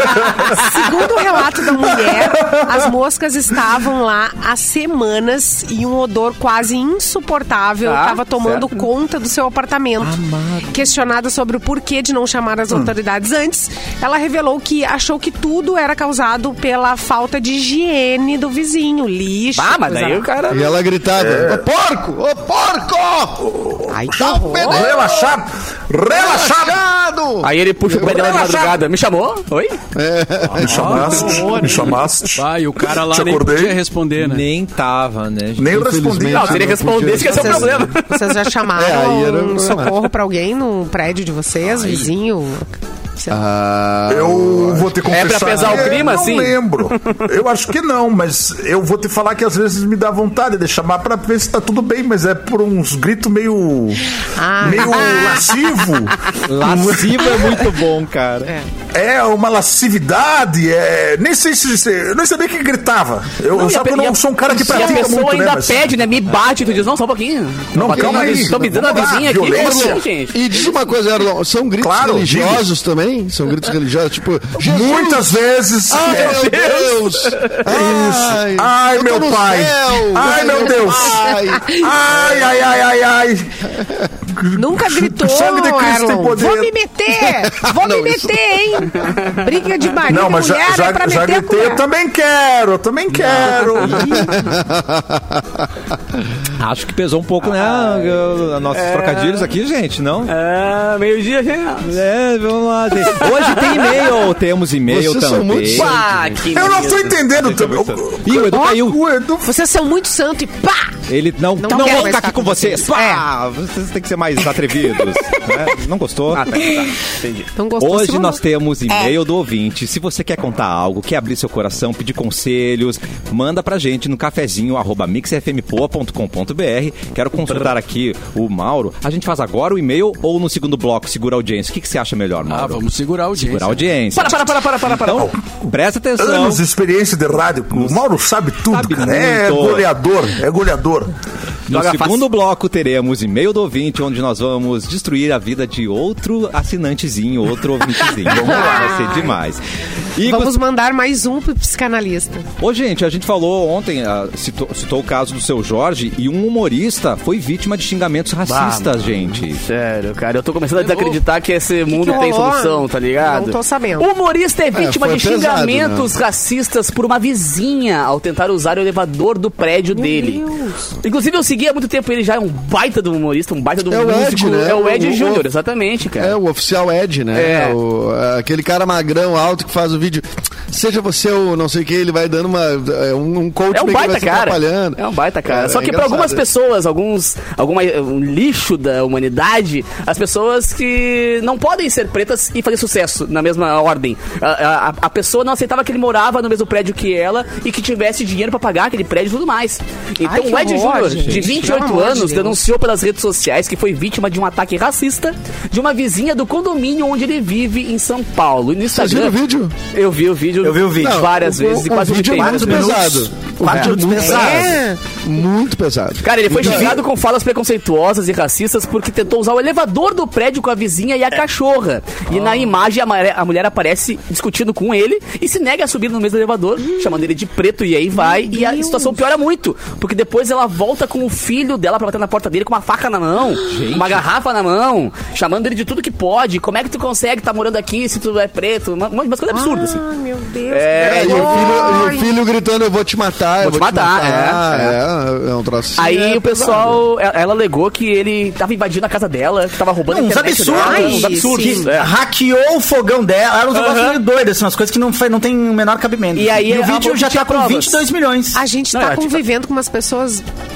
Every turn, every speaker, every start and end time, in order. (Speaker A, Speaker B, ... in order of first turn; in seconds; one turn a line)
Speaker A: 0.1-0.4
Speaker B: 0.2-20.2
Speaker A: 1.8-2.8
Speaker C: 7.8-8.8
Speaker D: 10.0-10.8
Speaker C: 19.6-20.7
Speaker E: 20.5-23.5
Speaker A: 21.2-21.6
Speaker A: 23.5-23.9
Speaker B: 23.9-24.9
Speaker E: 24.1-25.3
Speaker A: 24.6-26.8
Speaker E: 26.1-28.3
Speaker C: 27.4-29.8
Speaker A: 27.9-28.8
Speaker E: 29.9-31.3
Speaker A: 30.6-33.8
Speaker F: 30.7-34.5
Speaker B: 31.1-31.9
Speaker D: 34.2-35.8
Speaker A: 35.6-37.3
Speaker E: 35.7-37.9
Speaker C: 36.3-38.4
Speaker B: 37.2-43.4
Speaker E: 38.7-40.0
Speaker D: 41.7-42.1
Speaker E: 43.3-46.0
Speaker A: 44.1-57.3
Speaker C: 45.1-47.2
Speaker B: 54.3-55.5
Speaker D: 56.5-58.5
Speaker A: 58.9-65.9
Speaker C: 63.5-70.4
Speaker E: 64.5-65.0
Speaker A: 67.7-70.0
Speaker E: 67.8-82.6
Speaker A: 71.8-72.7
Speaker A: 74.6-76.4
Speaker C: 76.0-77.7
Speaker A: 77.7-83.5
Speaker B: 81.2-81.8
Speaker E: 83.7-84.1
Speaker A: 84.3-86.7
Speaker B: 84.5-91.8
Speaker E: 87.5-88.4
Speaker A: 90.0-94.1
Speaker D: 93.2-94.4
Speaker C: 93.4-93.9
Speaker E: 94.1-95.7
Speaker D: 96.6-100.3
Speaker C: 97.4-99.5
Speaker C: 100.3-102.0
Speaker D: 101.8-106.0
Speaker C: 103.0-104.1
Speaker E: 104.9-106.0
Speaker C: 105.7-107.2
Speaker A: 106.5-109.5
Speaker D: 107.3-109.0
Speaker B: 109.4-110.9
Speaker D: 111.1-116.9
Speaker B: 111.6-113.2
Speaker C: 111.8-112.1
Speaker C: 116.3-117.5
Speaker B: 117.5-118.4
Speaker D: 117.8-136.6
Speaker F: 132.4-134.0
Speaker C: 134.1-135.3
Speaker A: 135.2-141.1
Speaker D: 137.7-138.0
Speaker D: 138.7-139.9
Speaker D: 141.7-149.6
Speaker C: 141.7-142.2
Speaker A: 148.3-148.9
Speaker B: 148.3-149.4
Speaker D: 150.2-150.5
Speaker B: 150.2-152.4
Speaker D: 152.6-159.6
Speaker C: 158.4-158.9
Speaker C: 159.6-170.4
Speaker F: 160.8-161.2
Speaker B: 161.9-164.1
Speaker E: 164.7-166.1
Speaker B: 169.9-170.8
Speaker C: 171.0-176.4
Speaker E: 173.9-175.4
Speaker E: 176.2-186.4
Speaker C: 177.3-177.8
Speaker C: 183.7-209.3
Speaker B: 200.2-202.6
Speaker D: 201.2-201.6
Speaker E: 208.9-209.7
Speaker C: 209.9-214.2
Speaker D: 210.7-211.0
Speaker E: 210.9-217.0
Speaker G: 212.4-214.5
Speaker B: 214.1-215.0
Speaker C: 216.2-240.0
Speaker B: 228.2-229.1
Speaker D: 233.6-234.2
Speaker B: 239.5-242.3
Speaker C: 240.7-242.0
Speaker E: 241.0-247.0
Speaker C: 243.6-244.9
Speaker C: 246.0-252.1
Speaker G: 250.1-258.6
Speaker B: 250.8-251.9
Speaker C: 253.7-254.2
Speaker C: 256.3-258.1
Speaker B: 258.5-260.4
Speaker C: 258.9-259.4